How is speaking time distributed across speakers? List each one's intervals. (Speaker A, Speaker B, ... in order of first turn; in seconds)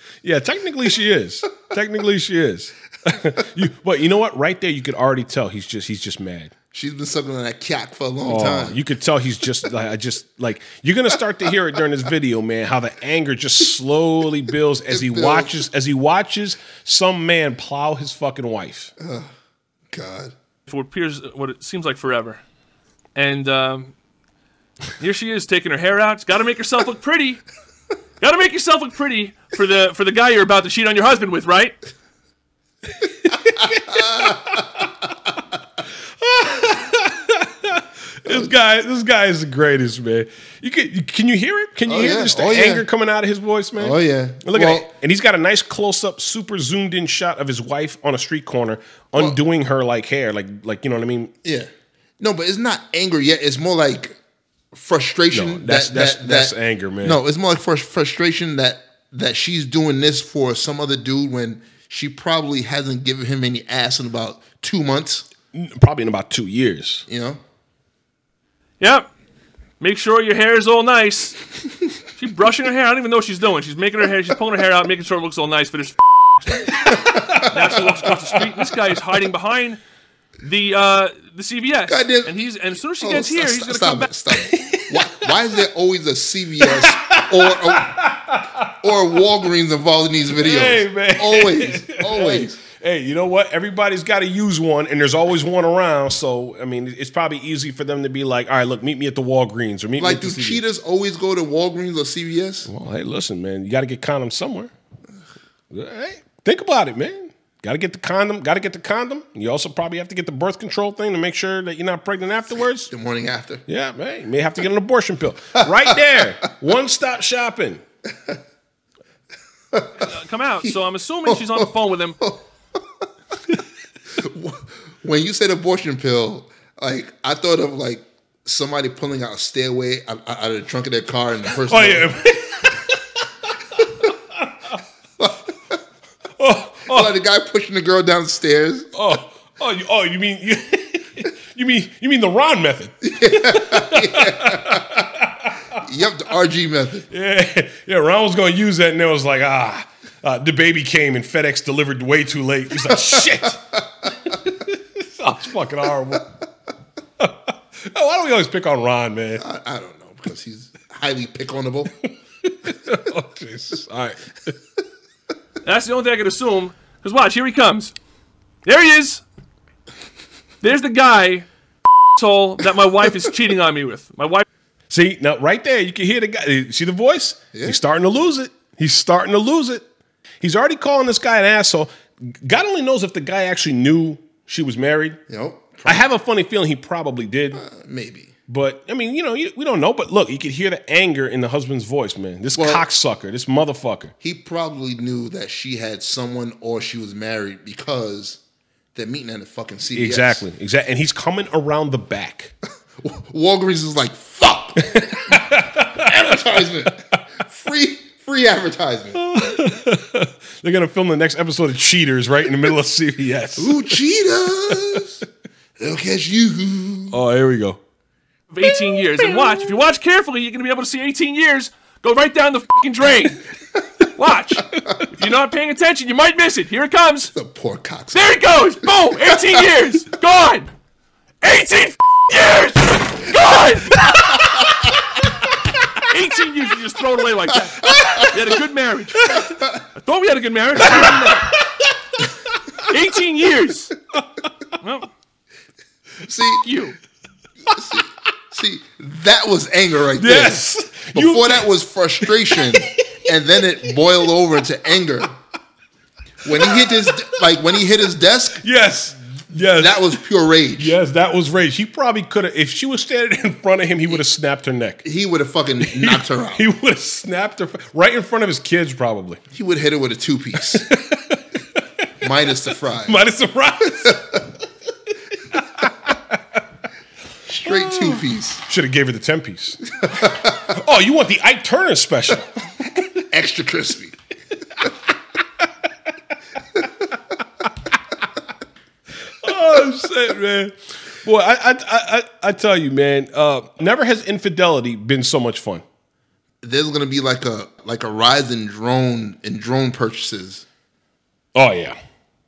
Speaker A: 0.2-6.5, 8.2-18.9, 33.0-34.9, 36.2-51.3, 55.3-57.2, 65.5-67.0, 77.0-77.8, 84.3-85.3, 86.6-89.0, 90.4-100.6, 102.6-104.7, 105.7-112.9, 113.7-117.8, 131.5-133.0, 133.7-134.1, 136.4-137.1, 138.9-145.8, 147.1-153.7, 154.2-156.3, 157.2-159.4, 162.4-164.6, 174.9-179.9, 180.4-185.2, 185.8-187.6, 188.5-194.1, 199.9-202.5, 204.8-206.1, 209.1-213.9, 217.1-217.8, 219.1-219.5, 239.2-239.5, 240.9-242.9, 244.1-244.5, 247.7-248.0, 250.1-251.7, 252.2-253.2, 256.6-257.3, 258.5-260.2, 260.8-265.0, 265.8-269.4, 270.6-271.4, 273.0-274.4, 275.5-276.2, 277.6-282.5, 289.4-295.8, 301.5-301.9
Speaker B: 6.7-8.8, 14.9-15.6, 19.0-19.3, 19.9-20.3, 41.9-42.9, 43.8-44.9, 52.2-54.2, 54.7-65.2, 67.1-67.4, 81.9-82.3, 83.0-88.0, 88.8-92.5, 100.0-102.7, 112.9-113.7, 121.2-121.7, 124.2-132.1, 135.2-135.8, 136.9-138.9, 143.0-144.8, 145.8-147.1, 152.9-153.4, 159.4-161.9, 177.5-177.8, 185.3-186.0, 187.5-188.3, 192.5-192.8, 194.2-198.4, 198.9-200.4, 203.0-209.2, 213.6-215.2, 215.8-217.2, 227.3-228.5, 229.1-229.5, 237.8-238.3, 239.5-239.8, 246.2-246.6, 247.7-255.3, 256.4-258.6, 259.7-261.0, 265.0-266.6, 269.5-270.8, 272.2-273.2, 277.4-278.6, 280.1-280.7, 283.3-284.1, 296.6-300.6
Speaker C: 20.7-22.4, 23.1-23.9, 25.0-27.4, 28.2-31.8, 68.8-69.1, 69.8-71.6, 72.1-79.8, 80.4-84.1, 120.0-122.2, 165.6-167.9, 168.6-169.2, 170.6-171.5, 172.1-174.4, 218.5-223.4, 224.1-227.3, 228.1-230.7, 231.4-235.2, 235.9-241.5, 242.8-243.9, 244.8-245.1, 246.6-246.9